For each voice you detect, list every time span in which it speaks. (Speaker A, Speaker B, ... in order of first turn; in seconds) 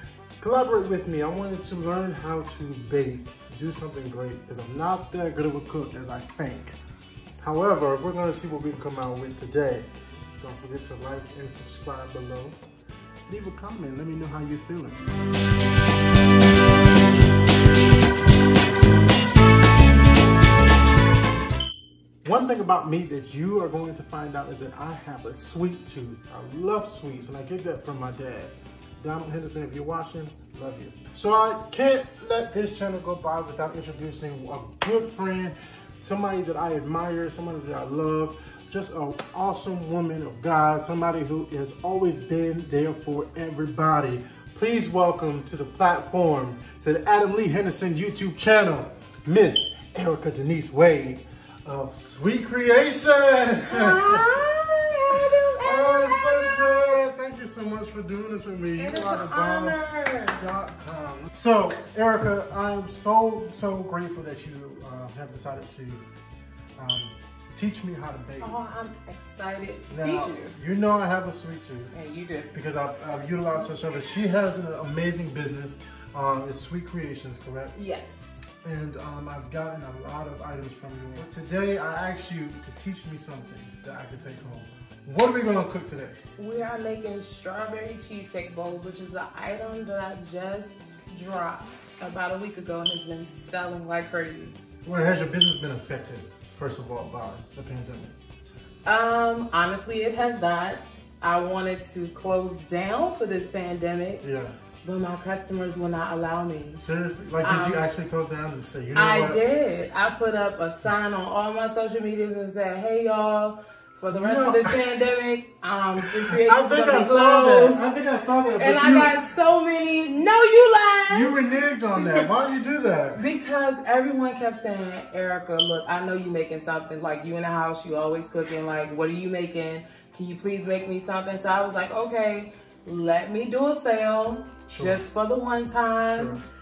Speaker A: 0.4-6.8, 7.4-12.6, 13.3-15.0, 22.2-54.3, 55.6-66.1, 66.8-68.6, 69.9-71.9, 72.5-77.7, 78.6-86.2, 94.8-98.2, 104.2-104.6, 106.8-109.4, 114.1-114.8, 116.0-119.2, 121.1-123.2, 134.7-135.0, 136.1-136.4
Speaker B: 53.7-56.8, 58.8-60.4, 68.4-70.6, 71.9-72.5, 77.7-78.4, 86.4-94.6, 98.9-104.2, 104.8-106.8, 107.4-107.9, 108.9-117.8, 118.6-121.4, 122.0-122.3, 123.2-136.4